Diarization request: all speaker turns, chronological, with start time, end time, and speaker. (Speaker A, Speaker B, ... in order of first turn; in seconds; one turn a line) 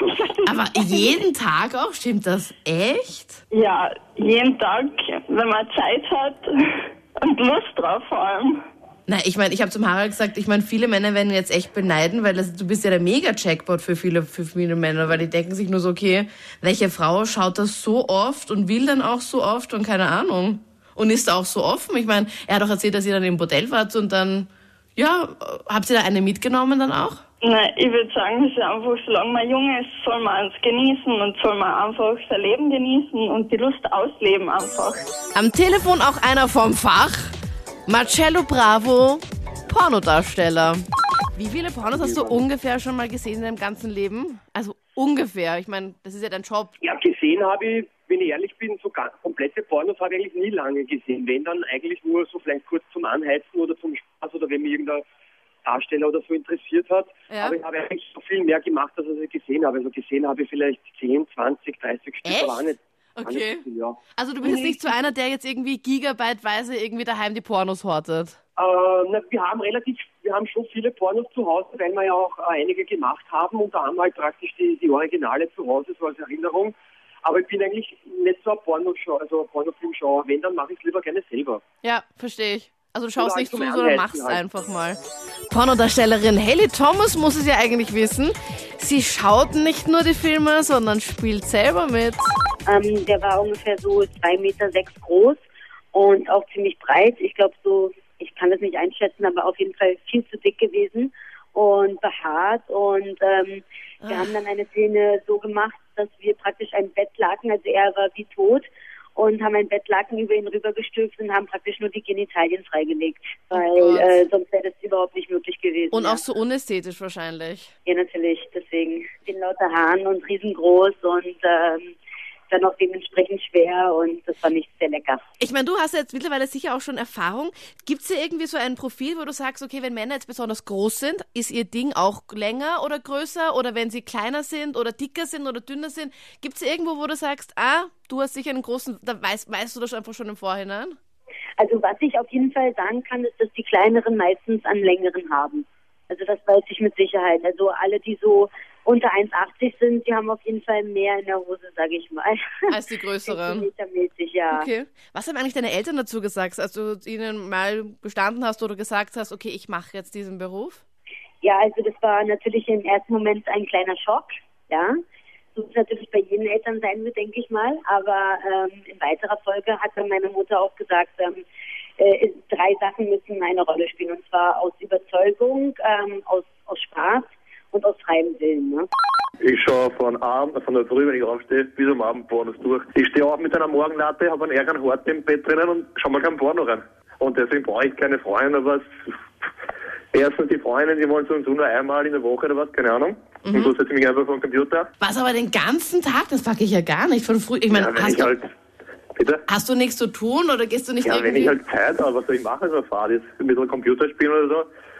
Speaker A: 0.5-3.4
Speaker B: 3.6-6.4
Speaker B: 7.3-8.6
Speaker A: 9.1-27.2
Speaker B: 27.4-35.0
Speaker A: 35.4-37.4
Speaker A: 37.9-40.8
Speaker A: 41.4-46.7
Speaker C: 41.9-42.4
Speaker C: 46.8-55.0
Speaker C: 55.6-64.9
Speaker A: 57.3-57.6
Speaker A: 62.2-62.6
Speaker A: 63.2-68.4
Speaker C: 68.6-81.6
Speaker A: 81.8-85.0
Speaker C: 83.2-84.4
Speaker A: 85.5-92.4
Speaker D: 92.7-95.4
Speaker D: 95.9-116.2
Speaker A: 104.0-104.3
Speaker A: 113.5-114.2
Speaker A: 115.9-117.7
Speaker D: 117.9-122.0
Speaker D: 122.5-125.2
Speaker A: 125.4-141.0
Speaker D: 141.6-152.4
Speaker A: 152.7-153.7
Speaker D: 153.3-154.7
Speaker A: 154.5-160.8
Speaker D: 161.4-164.9
Speaker D: 165.6-171.4
Speaker D: 172.0-178.9
Speaker E: 179.4-188.9
Speaker E: 190.1-194.9
Speaker A: 193.4-193.8
Speaker A: 195.0-198.3
Speaker E: 197.8-198.4
Speaker E: 199.2-199.4
Speaker A: 199.5-201.6
Speaker E: 201.1-204.7